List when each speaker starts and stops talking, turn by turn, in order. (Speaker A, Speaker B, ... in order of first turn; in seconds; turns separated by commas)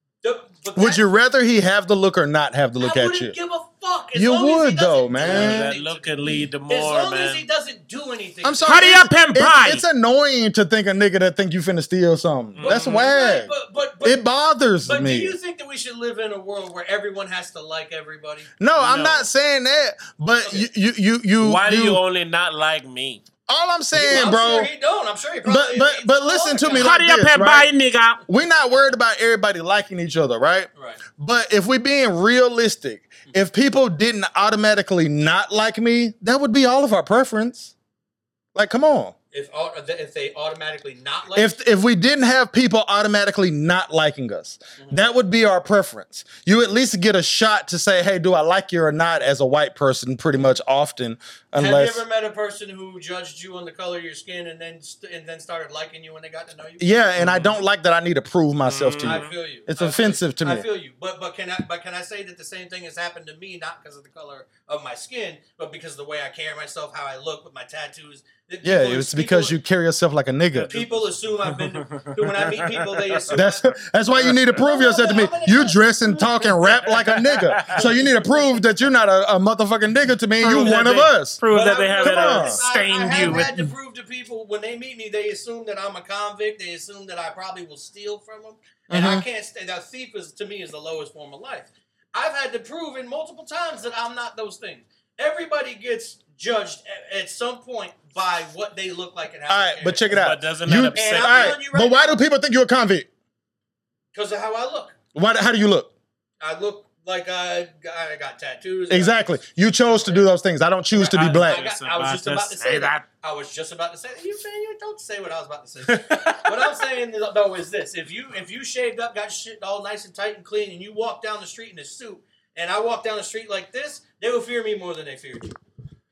Speaker A: 0.2-1.1, Speaker B: 0.7-3.4, Speaker A: 2.8-8.8, Speaker B: 4.1-5.7, Speaker C: 5.2-7.4, Speaker B: 8.4-15.3, Speaker C: 8.7-9.8, Speaker C: 12.5-13.1, Speaker A: 12.6-14.2, Speaker A: 14.8-18.5, Speaker B: 18.6-22.0, Speaker C: 18.8-19.3, Speaker C: 21.4-23.2, Speaker B: 23.5-24.7, Speaker A: 23.9-26.9, Speaker B: 25.4-27.7, Speaker C: 26.7-28.2, Speaker B: 28.3-37.7, Speaker A: 30.7-31.0, Speaker B: 38.5-39.1, Speaker A: 39.3-41.5, Speaker B: 41.3-52.0, Speaker A: 51.5-56.9, Speaker B: 56.8-60.6, Speaker C: 57.2-57.5, Speaker C: 58.6-59.3, Speaker A: 59.0-69.5, Speaker B: 68.6-70.7, Speaker C: 70.5-71.6, Speaker A: 70.7-73.7, Speaker C: 72.2-73.4, Speaker B: 73.3-81.4, Speaker C: 74.2-74.4, Speaker A: 74.5-75.9, Speaker C: 76.4-77.9, Speaker A: 77.7-78.3, Speaker C: 80.4-83.5, Speaker A: 81.5-100.2, Speaker B: 82.0-82.6, Speaker B: 83.2-83.6, Speaker B: 88.9-89.2, Speaker B: 99.5-103.1, Speaker C: 100.1-101.6, Speaker A: 100.9-102.2, Speaker A: 104.1-104.9, Speaker B: 105.1-105.9, Speaker A: 106.4-109.3, Speaker B: 108.9-111.6, Speaker C: 111.0-113.0, Speaker A: 111.0-125.5, Speaker C: 115.9-116.7